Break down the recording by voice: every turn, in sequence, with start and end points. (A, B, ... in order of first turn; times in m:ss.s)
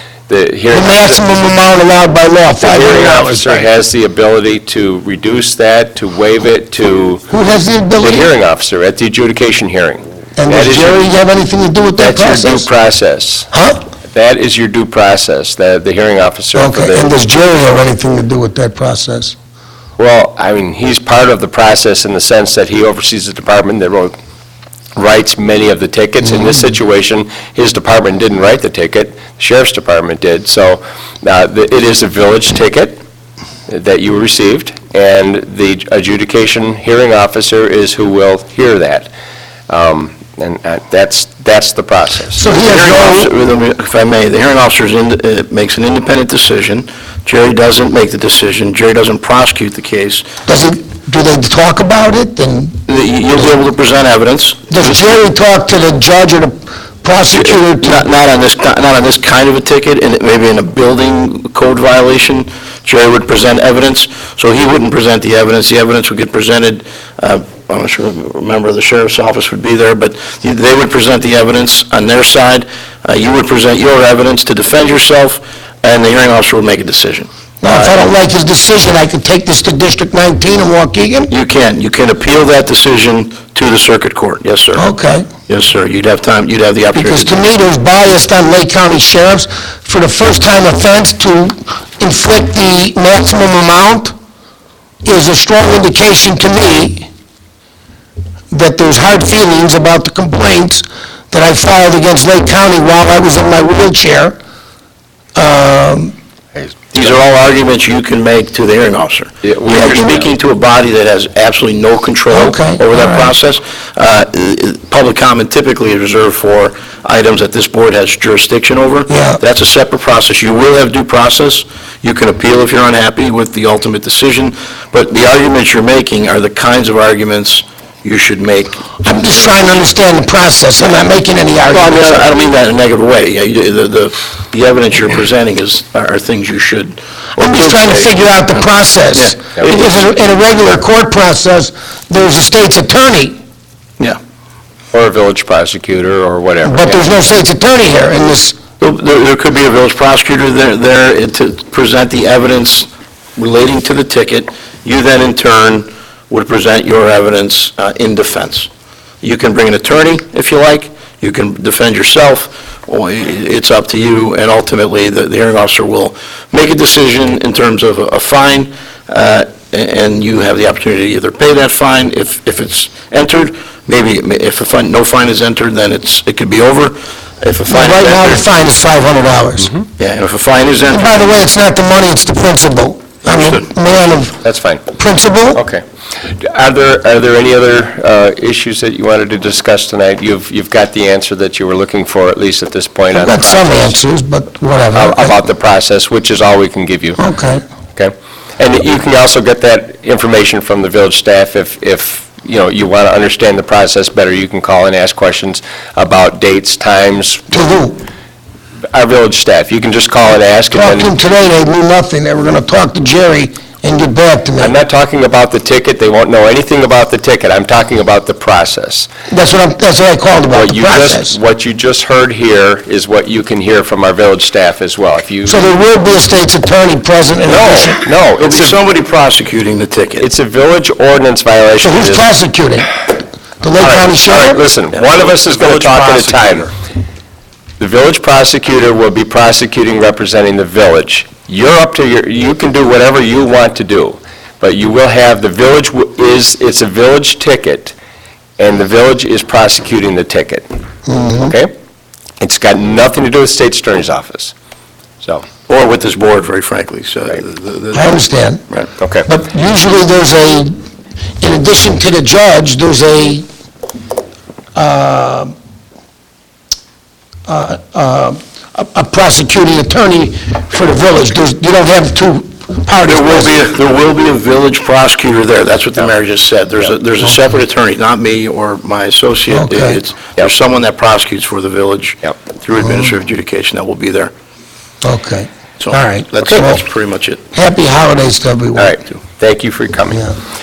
0:00.3-0:01.2 A
0:00.7-0:03.5 B
0:02.6-0:07.3 A
0:07.3-0:08.3 B
0:08.0-0:11.1 A
0:10.4-0:12.7 B
0:12.0-0:13.5 A
0:13.5-0:13.8 B
0:14.1-0:17.1 A
0:16.5-0:19.4 B
0:20.0-0:24.2 A
0:25.0-0:33.0 A
0:33.7-0:39.1 A
0:39.7-0:42.4 A
0:42.4-0:43.3 B
0:42.4-0:50.3 C
0:50.5-0:52.8 B
0:52.9-0:55.1 C
0:54.7-0:58.0 B
0:57.3-1:18.0 C
1:17.6-1:21.3 B
1:21.3-1:24.9 C
1:24.7-1:25.3 B
1:25.5-1:27.4 C
1:27.0-1:34.1 B
1:35.0-1:37.1 B
1:38.5-1:44.4 B
1:45.4-1:46.1 B
1:46.9-2:09.7 C
1:49.4-1:50.3 A
1:52.3-1:53.3 B
1:59.1-1:59.4 B
2:09.0-2:12.2 B
2:11.7-2:19.9 C
2:17.4-2:23.4 B
2:24.9-2:27.3 A
2:26.6-2:28.6 B
2:28.8-2:38.7 C
2:39.2-2:58.5 C
2:57.7-2:59.7 B
2:59.6-2:59.9 A
3:00.0-3:01.4 C
3:00.9-3:04.4 B
3:03.2-3:03.7 C
3:04.4-3:04.9 A
3:05.0-3:05.6 B
3:05.5-3:05.8 A
3:06.4-3:14.0 A
3:13.2-3:15.4 B
3:14.9-3:17.2 A
3:17.2-3:17.6 B
3:18.0-3:27.8 A
3:27.5-3:28.0 B
3:28.9-3:31.1 A
3:30.7-3:34.7 B
3:34.6-3:39.1 A
3:39.3-3:41.4 B
3:40.5-3:45.8 A
3:45.5-3:48.0 B
3:47.5-3:48.8 A
3:48.4-3:50.3 C
3:50.2-3:52.3 A
3:51.8-3:52.9 B
3:53.6-3:54.6 B
3:53.8-3:56.7 C
3:54.2-3:56.7 A
3:57.8-4:08.0 A
4:08.6-4:10.6 A
4:11.1-4:11.5 B
4:11.4-4:11.7 A
4:12.4-4:14.5 A
4:15.7-4:18.9 C
4:17.9-4:18.6 B
4:19.0-4:19.3 A
4:19.3-4:20.7 B
4:21.4-4:23.4 B
4:24.8-4:25.5 B
4:27.5-4:33.5 B
4:33.0-4:44.3 C
4:39.5-4:40.0 B
4:42.8-4:43.1 B
4:45.0-4:46.8 B
4:45.8-4:47.4 C
4:47.5-4:48.9 B
4:48.8-4:50.3 A